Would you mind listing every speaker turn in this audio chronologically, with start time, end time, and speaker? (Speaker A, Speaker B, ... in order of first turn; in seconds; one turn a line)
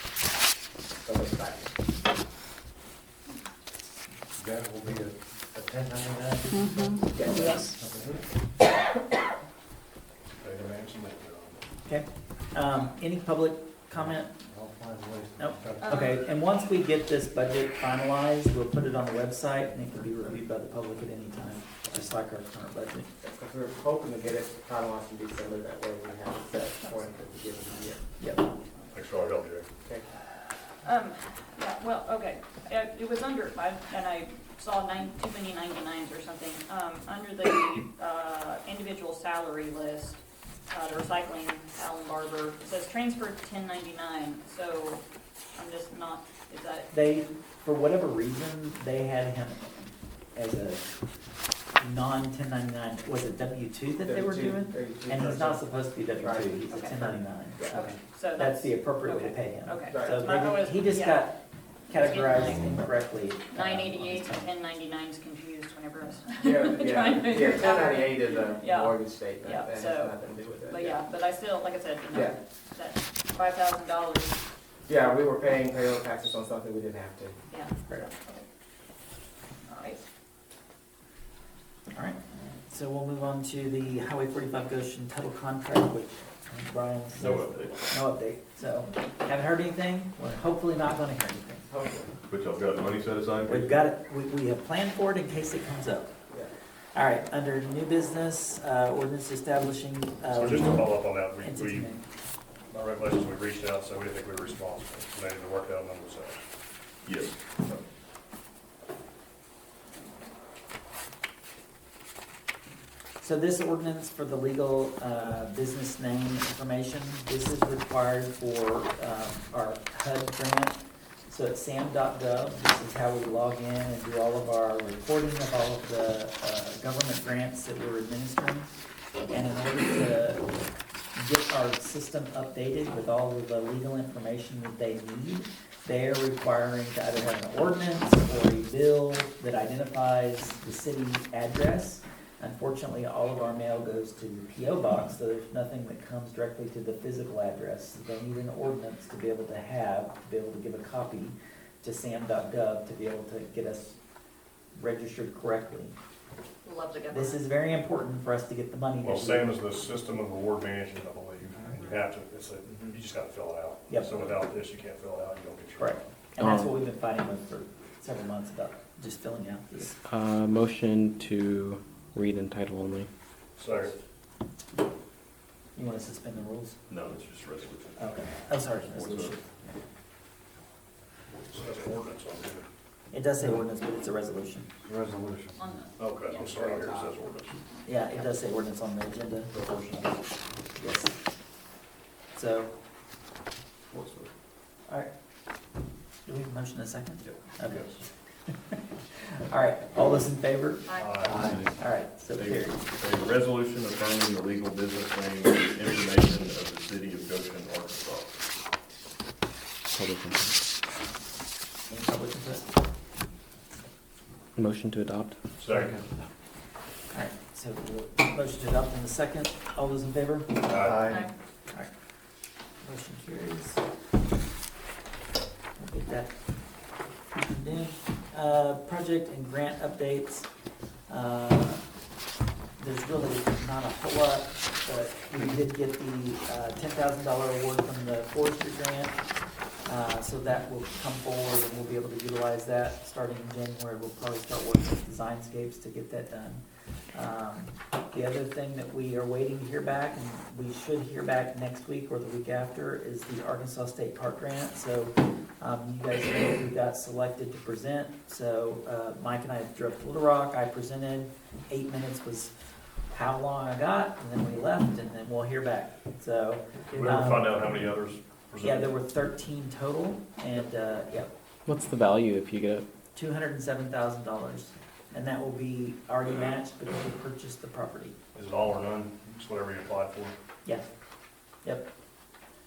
Speaker A: 1.0-1.7
Speaker B: 4.4-6.5
Speaker A: 7.0-7.7
Speaker B: 7.8-8.2
Speaker C: 10.4-11.6
Speaker D: 11.8-14.3
Speaker B: 14.4-15.8
Speaker D: 15.4-23.1
Speaker E: 15.8-16.1
Speaker A: 23.2-28.0
Speaker D: 28.2-28.5
Speaker C: 28.9-29.6
Speaker E: 30.8-46.9
Speaker D: 46.9-51.0
Speaker D: 51.8-64.5
Speaker A: 54.0-57.9
Speaker E: 57.7-61.3
Speaker A: 59.9-60.5
Speaker E: 61.9-62.8
Speaker E: 63.5-74.4
Speaker A: 66.4-71.0
Speaker A: 74.9-77.4
Speaker E: 77.5-78.4
Speaker E: 79.7-80.0
Speaker D: 81.9-91.7
Speaker F: 87.1-87.9
Speaker A: 91.7-92.1
Speaker F: 92.3-93.7
Speaker D: 93.5-96.1
Speaker D: 96.9-100.9
Speaker C: 100.3-101.9
Speaker D: 101.4-102.0
Speaker C: 102.7-106.4
Speaker F: 107.0-107.4
Speaker D: 113.2-130.5
Speaker D: 131.1-154.0
Speaker D: 154.7-155.9
Speaker E: 156.6-157.4
Speaker D: 157.1-159.5
Speaker C: 159.0-166.0
Speaker E: 161.7-162.0
Speaker D: 163.9-164.3
Speaker D: 165.8-169.9
Speaker G: 166.4-166.7
Speaker G: 170.1-173.1
Speaker C: 173.6-173.9
Speaker D: 175.8-176.8
Speaker F: 176.9-179.3
Speaker D: 177.9-179.7
Speaker C: 181.5-182.7
Speaker D: 183.1-184.7
Speaker B: 184.8-185.6
Speaker E: 185.6-186.3
Speaker C: 186.0-187.6
Speaker A: 186.3-187.2
Speaker D: 187.8-190.2
Speaker D: 190.8-191.2
Speaker D: 192.3-192.7
Speaker F: 193.9-194.3
Speaker D: 196.2-198.8
Speaker C: 197.6-198.0
Speaker D: 199.5-200.8
Speaker E: 200.8-201.2
Speaker C: 201.0-201.5
Speaker G: 201.3-201.7
Speaker D: 201.5-202.8
Speaker F: 202.3-208.3
Speaker G: 209.9-210.6
Speaker D: 211.9-212.6
Speaker G: 214.6-216.0
Speaker C: 215.6-216.0
Speaker D: 217.1-220.7
Speaker C: 220.6-221.1
Speaker B: 220.8-221.2
Speaker E: 221.1-221.3
Speaker D: 222.8-223.8
Speaker D: 225.8-226.3
Speaker D: 227.3-230.5
Speaker D: 231.1-231.8
Speaker D: 232.8-239.2
Speaker D: 239.8-246.6
Speaker D: 247.1-262.5
Speaker D: 263.1-267.7
Speaker C: 266.9-268.9
Speaker D: 268.6-271.3
Speaker G: 271.7-272.9
Speaker D: 273.1-278.1
Speaker C: 278.3-280.4